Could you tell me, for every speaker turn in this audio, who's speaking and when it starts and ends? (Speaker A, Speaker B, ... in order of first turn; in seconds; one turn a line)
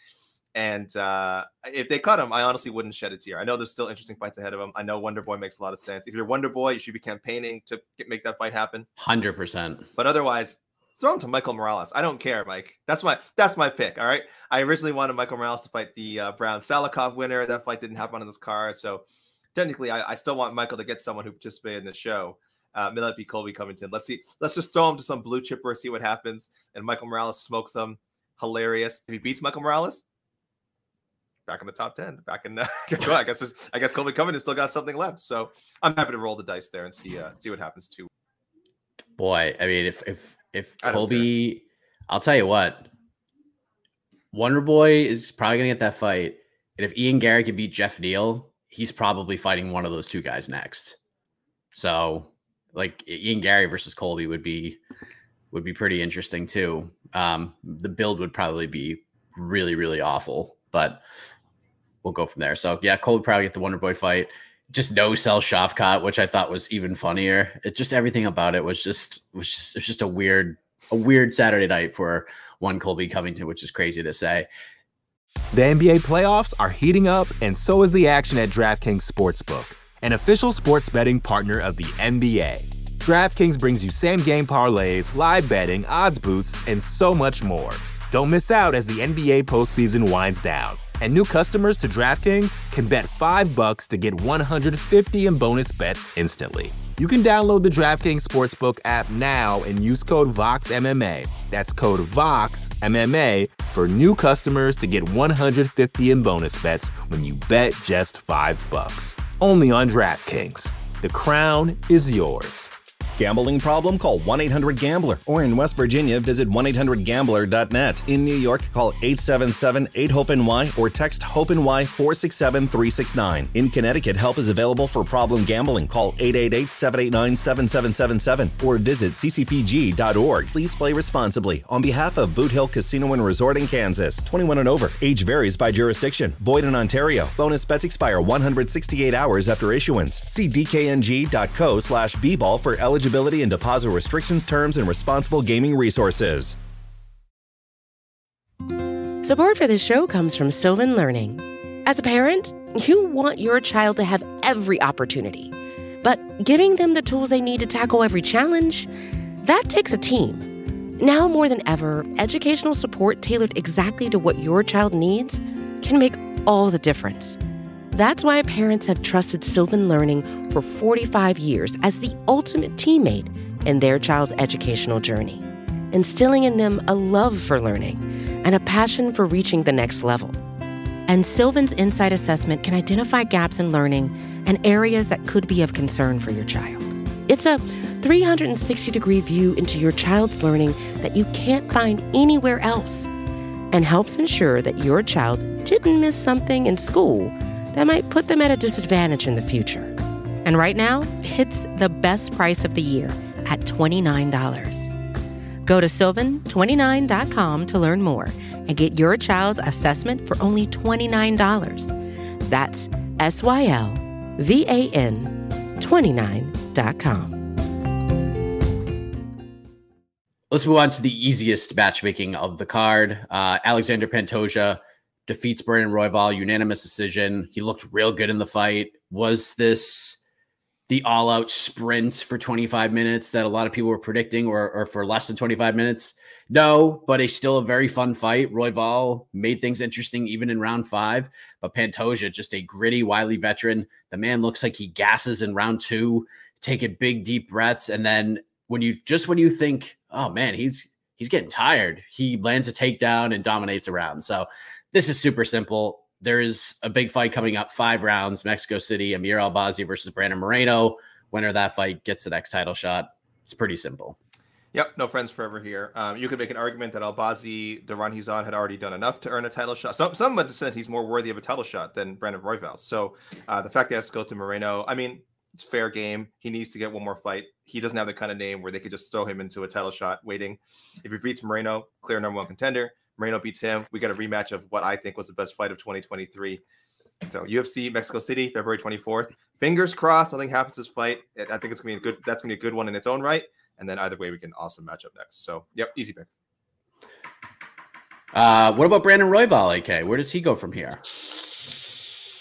Speaker A: 0.5-8.9
Speaker B: 9.0-9.9
Speaker A: 10.0-19.0
Speaker A: 19.5-30.0
Speaker A: 31.5-38.1
Speaker B: 39.2-42.9
Speaker A: 40.8-41.3
Speaker B: 44.3-51.0
Speaker B: 51.7-54.8
Speaker B: 55.5-61.0
Speaker B: 62.0-74.5
Speaker C: 75.5-112.7
Speaker D: 113.2-146.6
Speaker E: 149.2-158.9
Speaker E: 159.4-167.4
Speaker E: 167.9-180.4
Speaker E: 181.1-193.1
Speaker E: 193.7-204.9
Speaker E: 205.6-217.4
Speaker B: 220.5-230.2
Speaker B: 230.9-264.2
Speaker A: 264.7-286.6
Speaker A: 287.2-296.3
Speaker B: 298.3-301.0